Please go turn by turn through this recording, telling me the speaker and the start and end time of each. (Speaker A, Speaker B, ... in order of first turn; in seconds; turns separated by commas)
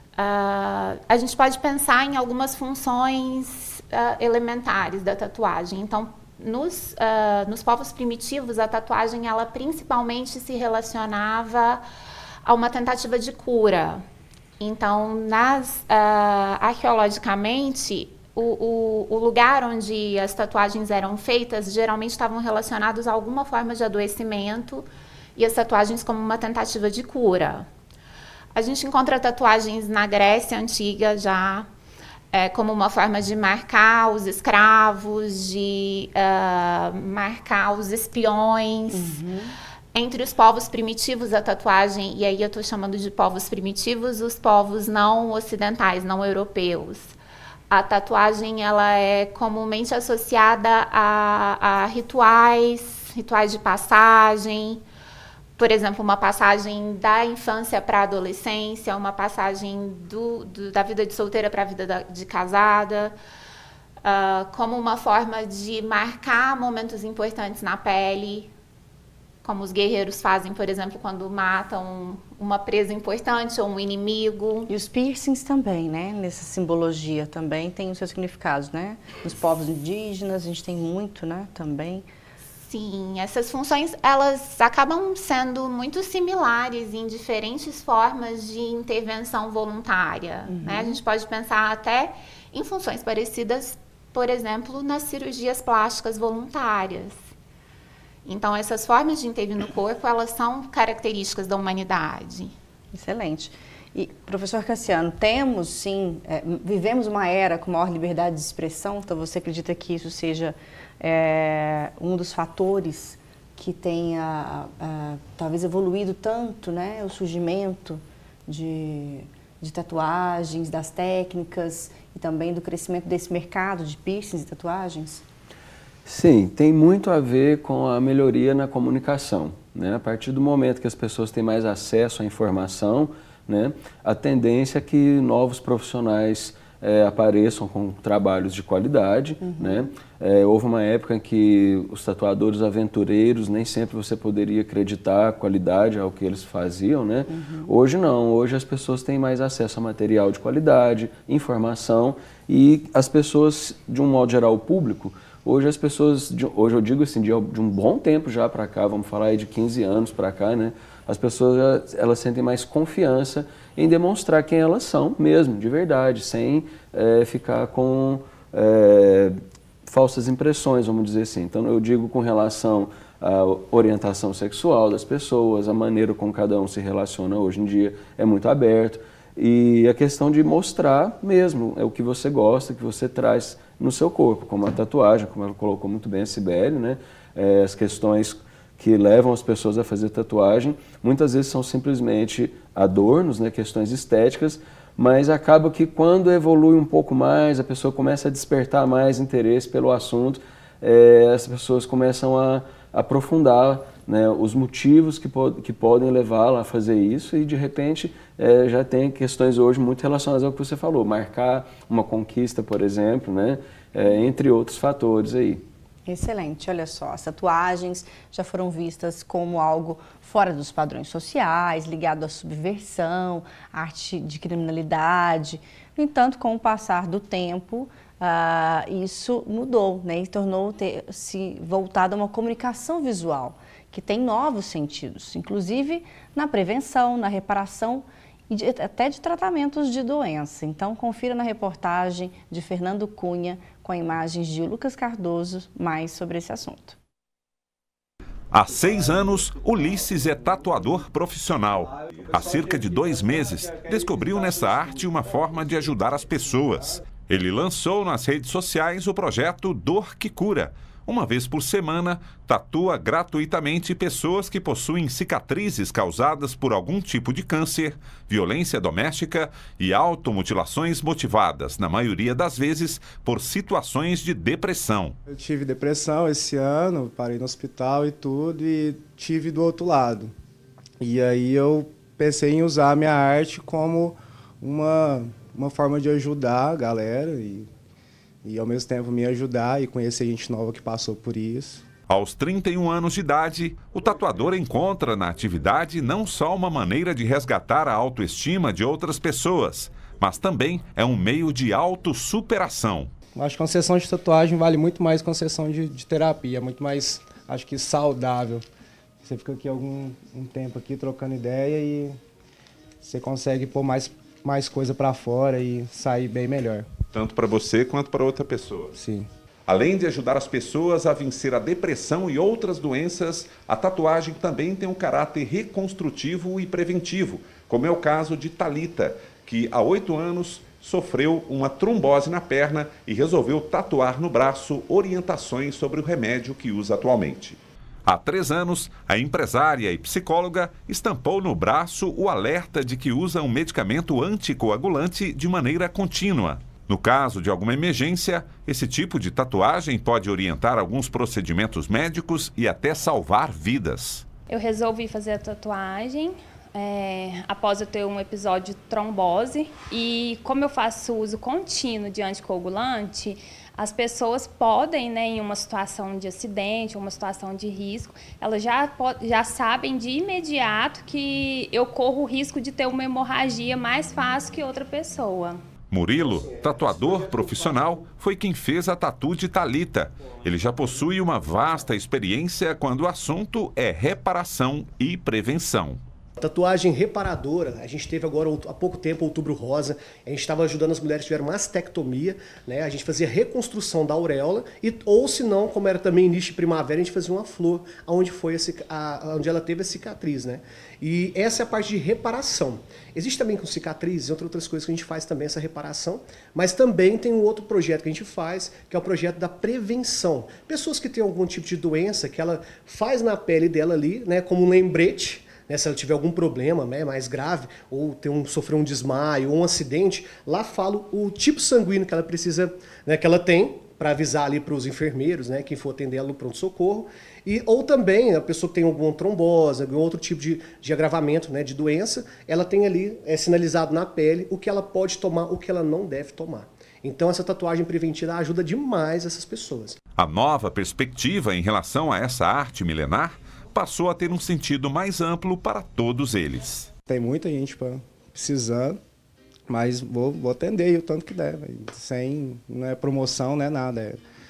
Speaker A: 0.2-11.8, Speaker A: 12.4-14.0, Speaker A: 14.6-27.7, Speaker A: 28.5-31.7, Speaker A: 32.3-39.2, Speaker B: 38.9-39.5, Speaker A: 39.9-47.1, Speaker A: 47.7-54.8, Speaker A: 55.6-63.1, Speaker A: 64.0-68.5, Speaker A: 69.4-74.7, Speaker B: 74.7-82.0, Speaker A: 82.6-97.2, Speaker B: 90.5-91.0, Speaker A: 98.2-102.5, Speaker B: 102.9-125.2, Speaker C: 126.0-215.6, Speaker B: 139.4-139.9, Speaker B: 147.3-147.7, Speaker B: 216.1-247.0, Speaker D: 248.5-275.2, Speaker E: 275.3-280.3, Speaker E: 281.0-287.7, Speaker E: 288.4-291.9, Speaker D: 292.1-303.1, Speaker E: 303.3-308.6, Speaker E: 309.2-312.2, Speaker E: 313.0-316.9, Speaker D: 317.1-318.9, Speaker E: 318.9-319.3, Speaker D: 319.7-354.2, Speaker F: 354.5-375.6, Speaker D: 375.9-386.0, Speaker G: 386.4-440.0, Speaker D: 440.2-446.9, Speaker E: 447.1-449.0, Speaker E: 449.7-454.2